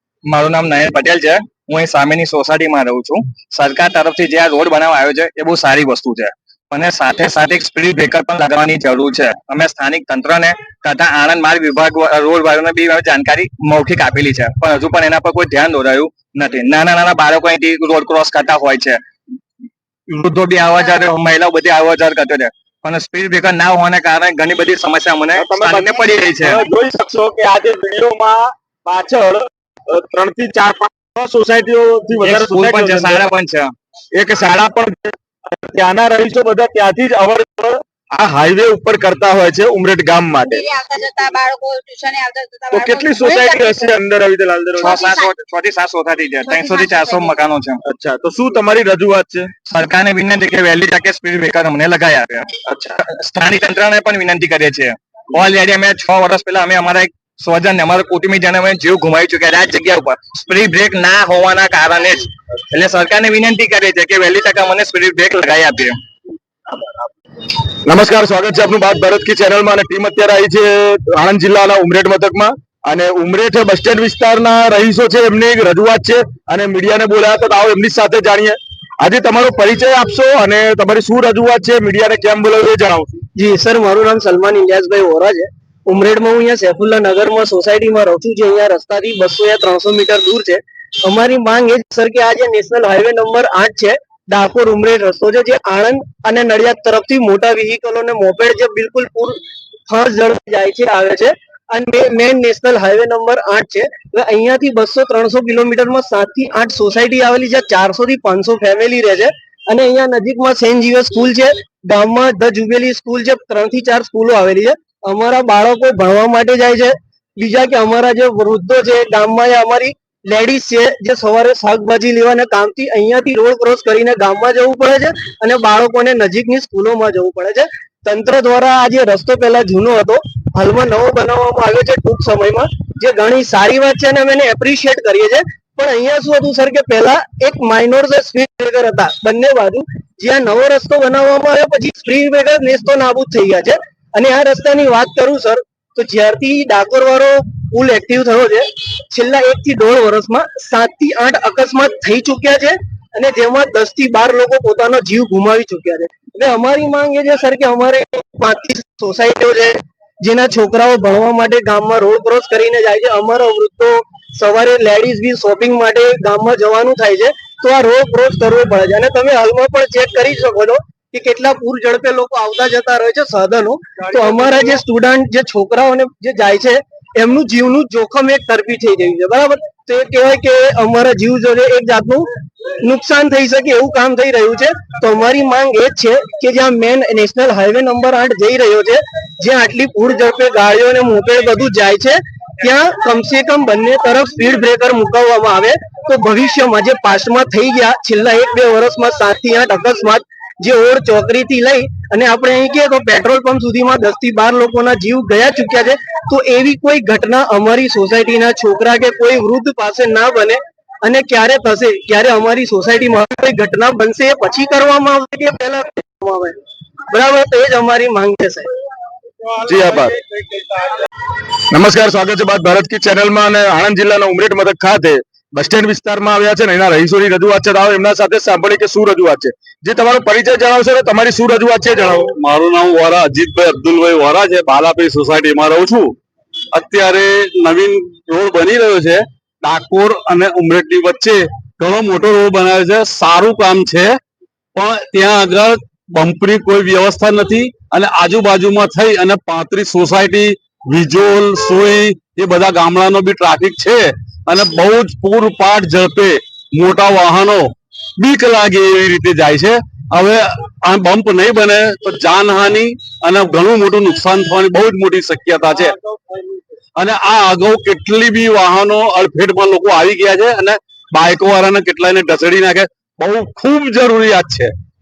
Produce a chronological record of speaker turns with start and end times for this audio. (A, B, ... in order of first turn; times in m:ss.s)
0:00.3-0:19.0 A
0:20.1-0:26.6 A
0:25.4-0:33.2 B
0:32.2-0:33.7 A
0:34.1-0:40.7 B
0:40.4-0:44.0 C
0:42.7-0:45.1 B
0:44.8-0:47.8 A
0:44.8-0:45.3 C
0:46.5-0:47.4 C
0:47.9-0:49.5 B
0:49.7-0:52.5 A
0:52.7-0:53.0 B
0:53.0-1:06.0 A
1:07.9-1:23.2 B
1:23.4-3:02.3 D
3:02.8-3:38.7 D
3:39.6-3:40.2 B
3:41.7-3:52.3 B
3:52.3-3:56.2 E
3:56.7-4:04.1 E
4:04.8-4:26.0 E
4:27.0-4:34.7 E